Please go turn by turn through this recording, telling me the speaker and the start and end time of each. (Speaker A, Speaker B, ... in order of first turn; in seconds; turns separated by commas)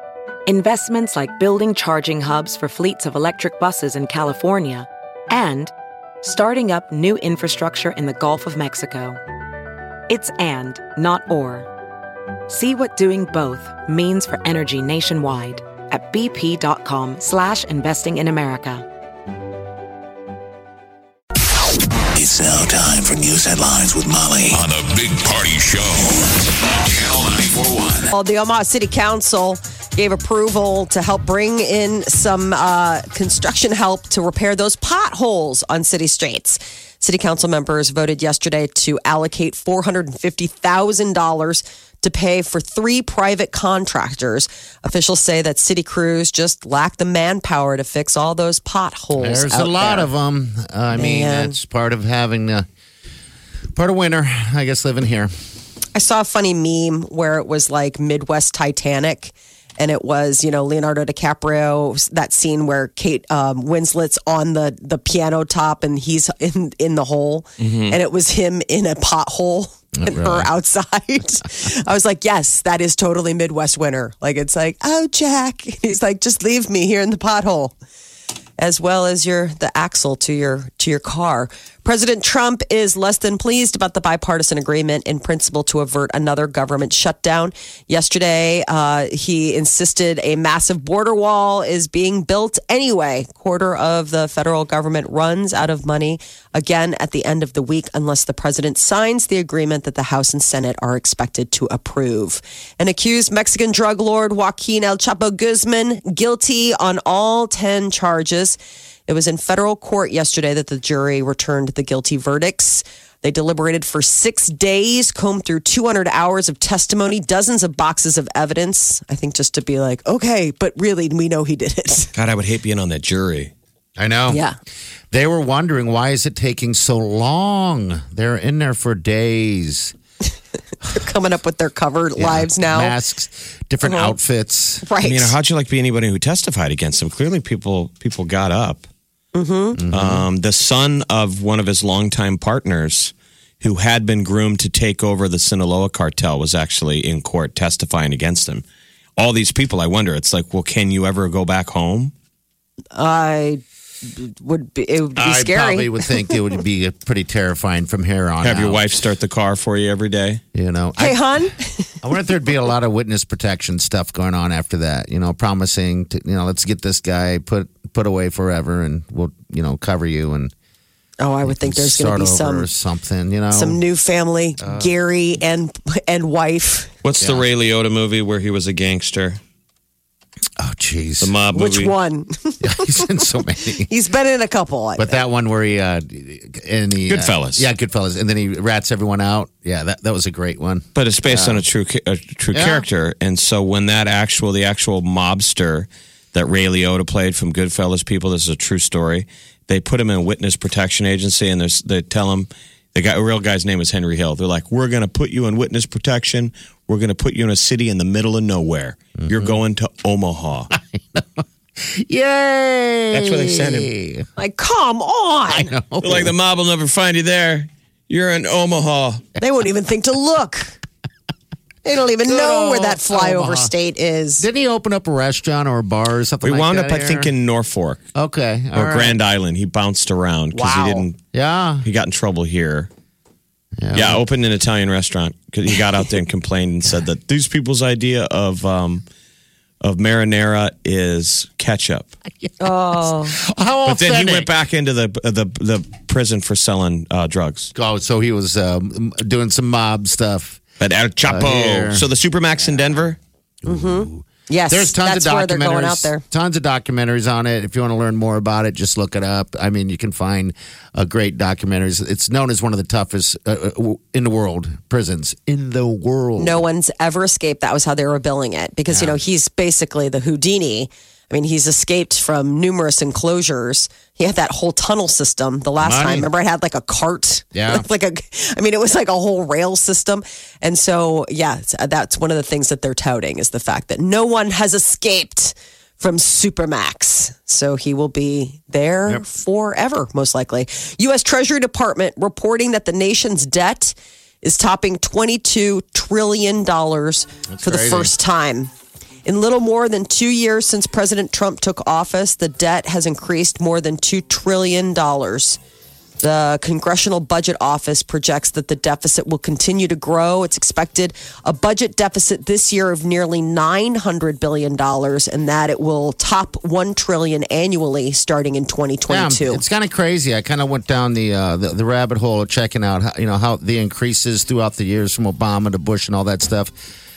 Speaker A: 0.5-5.7, Speaker A: 6.2-9.2, Speaker A: 10.1-11.7, Speaker A: 12.5-18.9, Speaker B: 22.1-28.1, Speaker C: 28.1-50.1, Speaker D: 49.2-52.7, Speaker C: 50.9-51.6, Speaker D: 53.8-55.3, Speaker C: 55.9-77.8, Speaker E: 67.6-68.0, Speaker D: 70.0-70.5, Speaker C: 78.6-122.1, Speaker E: 122.2-123.5, Speaker D: 124.0-124.4, Speaker C: 124.3-124.6, Speaker D: 125.1-129.9, Speaker C: 130.9-133.0, Speaker D: 132.2-134.8, Speaker C: 133.8-134.2, Speaker C: 134.8-135.3, Speaker E: 135.0-138.9, Speaker C: 139.3-139.8, Speaker D: 139.8-140.2, Speaker E: 139.9-148.6, Speaker E: 149.2-152.1, Speaker C: 152.9-156.4, Speaker D: 155.2-158.8, Speaker E: 158.4-160.4, Speaker D: 160.5-161.5, Speaker C: 161.0-162.0, Speaker D: 162.0-170.5, Speaker C: 171.2-172.7, Speaker D: 171.4-173.8, Speaker C: 173.5-176.9, Speaker D: 174.6-174.9, Speaker E: 177.0-179.4, Speaker D: 177.2-177.5, Speaker D: 180.6-181.3, Speaker E: 181.2-181.9, Speaker C: 181.5-183.2, Speaker D: 182.6-183.9, Speaker C: 183.8-185.2, Speaker D: 185.0-191.7, Speaker E: 187.1-187.7, Speaker E: 191.0-210.7, Speaker D: 192.5-192.8, Speaker D: 209.2-209.6, Speaker D: 210.7-214.2, Speaker E: 213.1-213.9, Speaker C: 214.4-215.7, Speaker D: 215.5-216.3, Speaker E: 216.0-219.2, Speaker C: 219.4-220.8, Speaker C: 221.8-224.4, Speaker D: 222.2-223.7, Speaker D: 224.4-227.3, Speaker E: 226.4-228.0, Speaker D: 228.2-229.2, Speaker E: 228.7-231.2, Speaker C: 230.5-231.1, Speaker D: 231.3-231.8, Speaker E: 231.8-232.9, Speaker D: 233.8-234.2, Speaker E: 233.9-239.0, Speaker E: 239.8-242.2, Speaker D: 242.4-244.5, Speaker C: 242.6-243.4, Speaker E: 243.8-247.7, Speaker D: 247.7-250.6, Speaker E: 250.8-253.2, Speaker D: 251.2-252.1, Speaker D: 253.6-266.6, Speaker C: 253.7-256.2, Speaker C: 266.4-298.7, Speaker D: 268.9-269.2, Speaker D: 275.8-276.3, Speaker D: 277.5-277.8, Speaker D: 297.5-298.1, Speaker C: 299.2-305.6, Speaker C: 306.2-319.6, Speaker D: 319.1-326.7